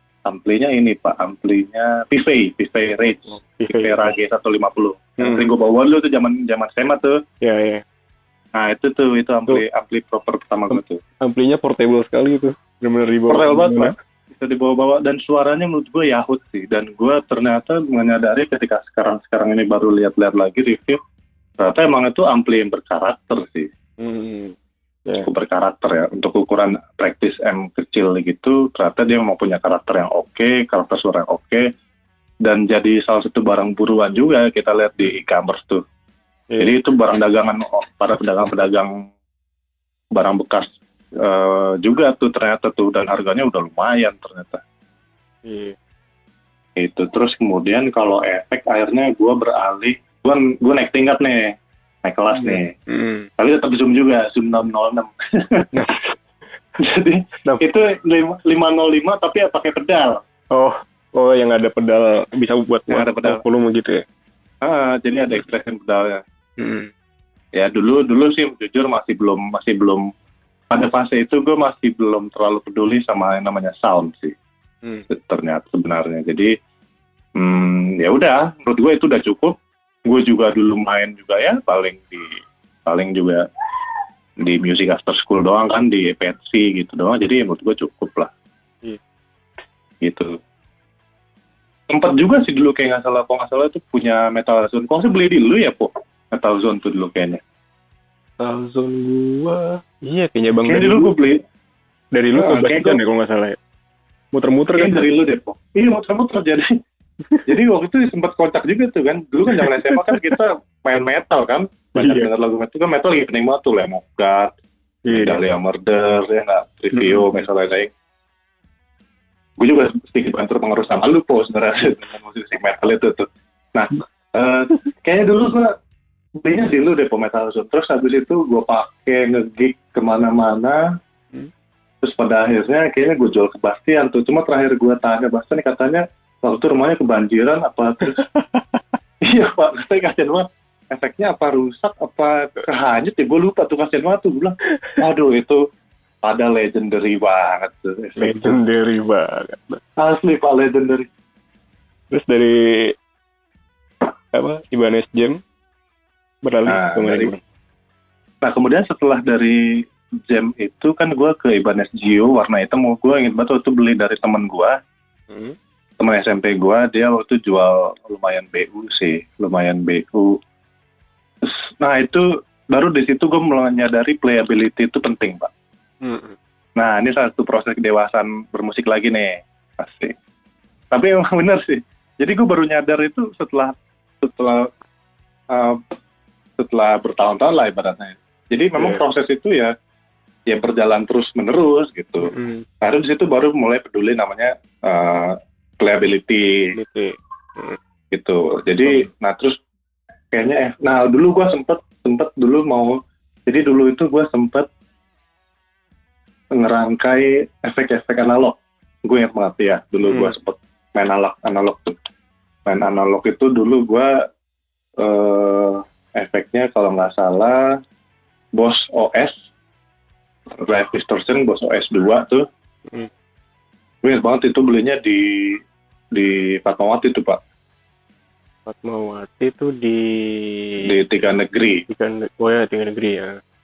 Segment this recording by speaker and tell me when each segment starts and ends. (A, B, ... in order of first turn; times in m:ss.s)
0:00.2-0:07.2 A
0:03.3-0:04.1 B
0:05.2-0:05.4 B
0:07.4-0:07.8 B
0:08.6-0:11.0 A
0:10.7-0:13.9 B
0:13.3-0:21.0 A
0:21.6-0:23.7 A
0:24.0-0:24.6 B
0:25.2-0:31.7 A
0:32.4-0:35.8 A
0:36.5-0:36.8 B
0:36.6-0:39.1 A
0:40.1-0:44.6 A
0:45.4-0:45.8 B
0:46.8-0:52.7 A
0:52.3-0:53.3 B
0:53.4-0:55.6 A
0:55.7-0:56.2 B
0:56.8-1:00.2 A
1:00.5-1:04.0 B
1:02.9-1:03.4 A
1:04.6-1:06.2 A
1:06.6-1:06.9 B
1:07.6-1:10.0 A
1:10.7-1:14.3 A
1:15.1-1:16.5 A
1:17.4-1:19.6 A
1:20.0-1:22.3 A
1:22.9-1:23.4 A
1:24.4-1:28.3 A
1:30.0-1:30.3 A
1:31.9-1:37.4 A
1:38.4-1:41.1 B
1:40.7-1:41.4 A
1:42.1-1:43.6 B
1:42.4-1:43.0 A
1:44.3-1:45.0 B
1:44.7-1:46.7 A
1:47.4-1:54.5 A
1:49.5-1:50.3 B
1:52.0-1:52.3 B
1:55.0-1:55.4 B
1:55.1-1:57.9 A
1:56.9-1:57.4 B
1:59.6-2:05.7 A
2:06.4-2:10.8 A
2:12.0-2:18.2 A
2:18.0-2:18.8 B
2:19.2-2:25.6 A
2:26.2-2:28.6 A
2:28.2-2:29.8 B
2:30.0-2:31.1 A
2:32.1-2:32.9 B
2:34.0-2:35.4 B
2:36.4-2:37.4 B
2:36.7-2:37.3 A
2:38.4-2:39.7 A
2:40.3-2:44.8 A
2:45.3-2:45.6 B
2:46.0-2:50.4 A
2:51.4-2:55.5 A
2:56.0-2:56.4 B
2:56.8-3:00.1 A
3:00.9-3:04.7 A
3:05.5-3:05.8 A
3:06.6-3:09.7 A
3:08.8-3:09.0 B
3:10.5-3:16.7 A
3:12.2-3:12.6 B
3:16.7-3:17.8 B
3:18.1-3:19.6 A
3:20.3-3:22.9 A
3:23.4-3:24.7 A
3:26.5-3:32.0 A
3:30.0-3:30.3 B
3:32.6-3:34.1 A
3:35.0-3:37.7 A
3:38.6-3:39.4 A
3:40.6-3:42.4 A
3:44.0-3:45.6 A
3:46.1-3:47.4 A
3:48.6-3:50.9 B
3:50.8-3:51.8 A
3:51.9-3:53.4 B